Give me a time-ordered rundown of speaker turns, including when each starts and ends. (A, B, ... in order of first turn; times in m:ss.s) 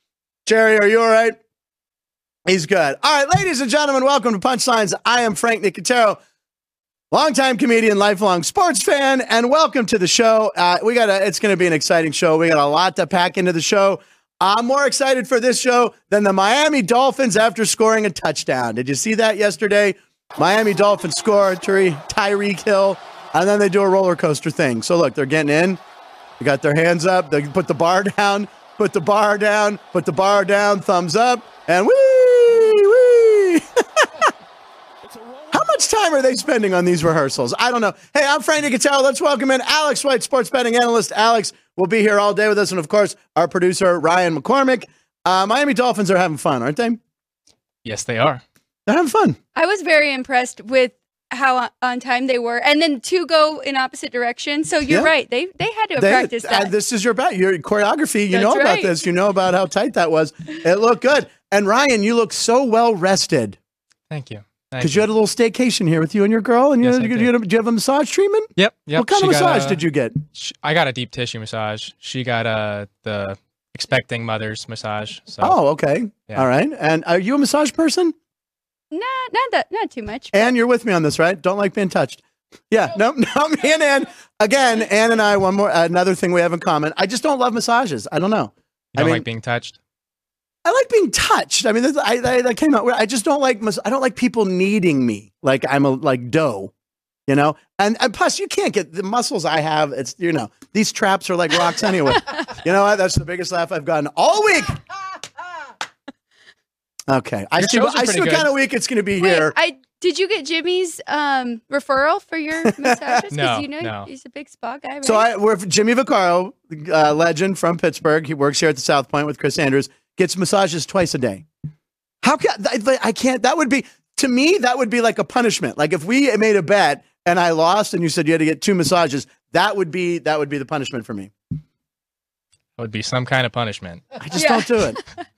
0:00.4-0:01.4 A
0:02.4-0:06.2 A
0:07.1-0:25.8 A
0:26.4-0:34.2 A
0:35.5-0:47.0 A
0:47.8-0:48.4 B
0:48.9-0:49.4 A
0:49.5-0:56.7 C
0:56.0-1:03.6 A
0:58.3-0:58.9 C
1:04.1-1:05.0 B
1:04.8-1:10.2 A
1:06.8-1:07.3 B
1:08.6-1:09.8 B
1:10.3-1:15.6 B
1:15.4-1:18.1 A
1:18.9-1:20.5 C
1:20.3-1:29.2 A
1:28.9-1:29.8 B
1:30.6-1:36.7 A
1:37.3-1:44.8 A
1:47.1-1:49.5 A
1:47.6-1:48.5 B
1:49.2-1:55.3 C
1:52.6-1:53.2 A
1:53.3-1:54.1 B
1:55.0-2:01.4 A
2:02.2-2:11.3 A
2:12.8-2:14.2 B
2:14.2-2:15.0 A
2:14.3-2:15.0 C